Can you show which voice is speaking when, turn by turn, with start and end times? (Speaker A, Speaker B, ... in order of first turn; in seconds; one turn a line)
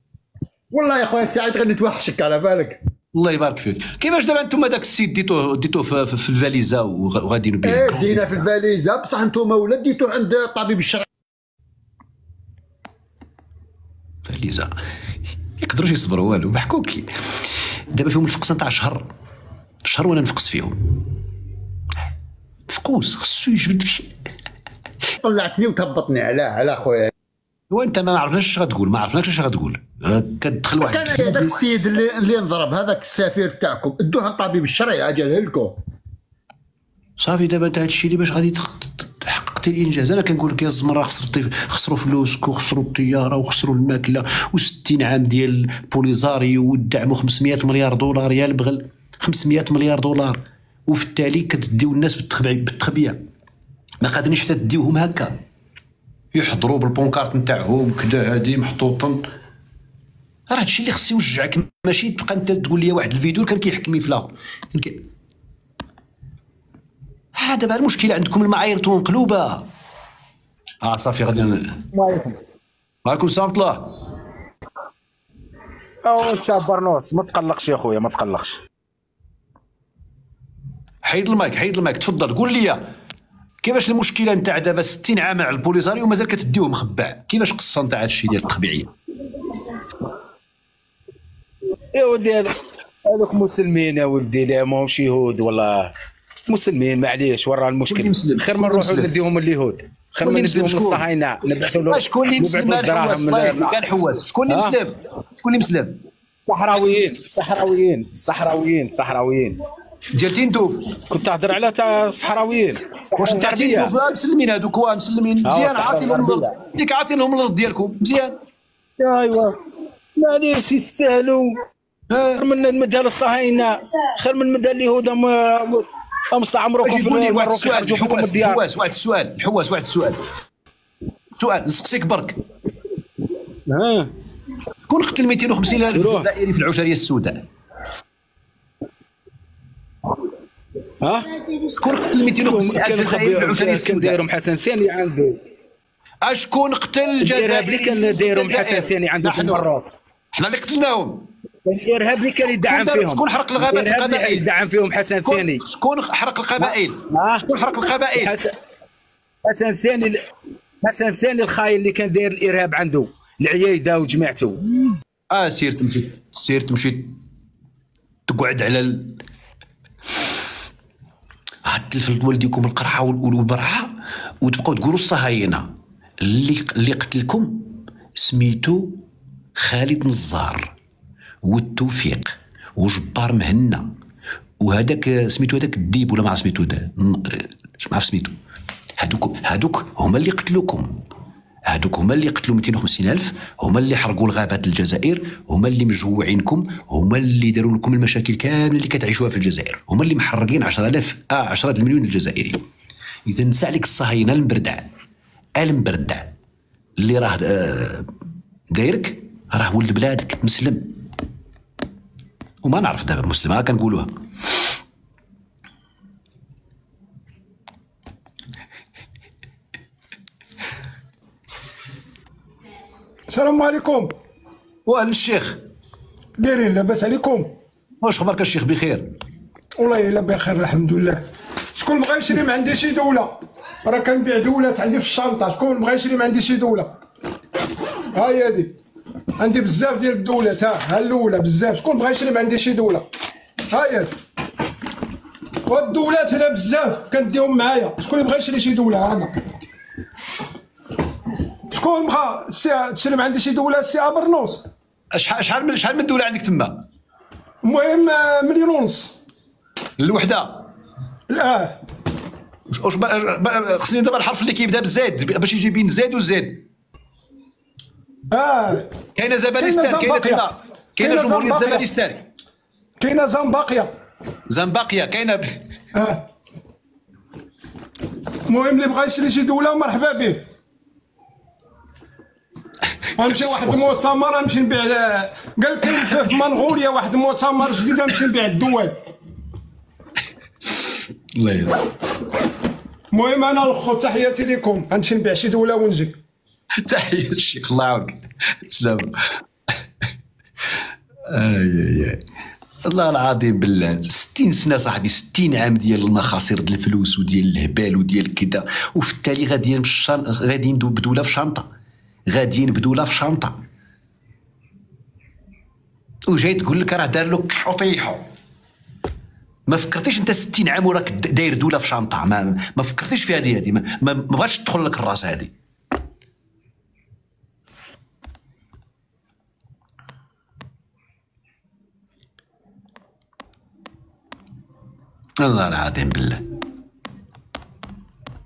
Speaker A: 0.7-2.8
Speaker B: 3.1-8.5
Speaker A: 7.6-11.1
Speaker B: 14.2-14.7
Speaker B: 15.6-17.1
Speaker B: 17.9-19.1
Speaker B: 19.9-20.8
Speaker B: 22.7-24.1
Speaker A: 25.2-27.1
Speaker B: 27.7-31.6
Speaker A: 30.8-35.8
Speaker B: 37.2-53.2
Speaker B: 54.0-55.3
Speaker B: 56.3-59.2
Speaker B: 60.5-65.0
Speaker B: 67.3-69.6
Speaker B: 70.8-71.8
Speaker C: 71.9-72.3
Speaker B: 73.0-73.8
Speaker C: 76.0-78.6
Speaker B: 81.0-82.8
Speaker B: 83.6-88.9
Speaker C: 91.9-92.5
Speaker C: 93.0-95.9
Speaker C: 96.5-103.8
Speaker B: 97.8-99.1
Speaker B: 100.2-101.0
Speaker B: 101.8-106.0
Speaker C: 104.5-104.8
Speaker C: 106.5-109.5
Speaker B: 110.1-110.9
Speaker C: 111.1-113.9
Speaker B: 113.1-118.3
Speaker C: 115.4-116.5
Speaker C: 119.0-119.5
Speaker C: 120.2-121.5
Speaker B: 122.1-122.5
Speaker C: 122.4-128.6
Speaker B: 126.8-130.2
Speaker B: 131.4-132.3
Speaker C: 133.7-134.1
Speaker B: 134.9-137.4
Speaker C: 135.9-136.3
Speaker C: 141.0-141.3
Speaker B: 141.8-144.2
Speaker C: 142.4-145.4
Speaker B: 146.2-149.7
Speaker C: 147.2-149.9
Speaker B: 150.3-151.3
Speaker C: 151.6-155.6
Speaker B: 152.6-154.6
Speaker B: 155.1-158.4
Speaker C: 156.6-157.4
Speaker C: 158.1-158.5
Speaker C: 159.4-160.2
Speaker C: 160.8-164.8
Speaker B: 165.3-167.1
Speaker B: 168.3-169.1
Speaker B: 171.7-173.9
Speaker B: 174.4-175.6
Speaker B: 176.2-179.0
Speaker B: 179.6-180.7
Speaker B: 181.4-183.9
Speaker B: 184.6-188.3
Speaker B: 189.0-190.9
Speaker B: 191.7-202.6
Speaker B: 203.3-204.9
Speaker B: 205.6-206.3
Speaker B: 207.0-208.1
Speaker B: 208.7-210.9
Speaker B: 212.6-214.1
Speaker D: 223.3-224.1
Speaker B: 224.8-225.6
Speaker D: 226.4-227.5
Speaker B: 228.0-229.0
Speaker D: 229.8-231.2
Speaker D: 231.8-237.0
Speaker D: 238.1-238.7
Speaker D: 239.4-243.1
Speaker D: 243.7-244.1
Speaker D: 245.7-249.3
Speaker D: 251.7-254.6
Speaker B: 255.1-256.8
Speaker D: 257.6-259.2
Speaker B: 260.0-260.6
Speaker D: 261.3-261.7
Speaker B: 262.7-266.6
Speaker D: 268.3-268.9
Speaker B: 269.1-272.2
Speaker D: 269.6-270.4
Speaker D: 271.0-271.9
Speaker D: 273.0-273.9
Speaker B: 274.5-275.4
Speaker D: 275.9-276.2
Speaker D: 278.5-280.4
Speaker D: 283.2-288.9
Speaker B: 283.4-283.8
Speaker B: 291.4-292.3
Speaker D: 293.1-296.1
Speaker B: 296.9-298.1
Speaker B: 298.7-299.1
Speaker B: 301.3-302.2
Speaker B: 302.9-311.6
Speaker B: 312.3-313.5
Speaker B: 316.3-318.2
Speaker B: 319.7-325.5
Speaker B: 335.4-336.4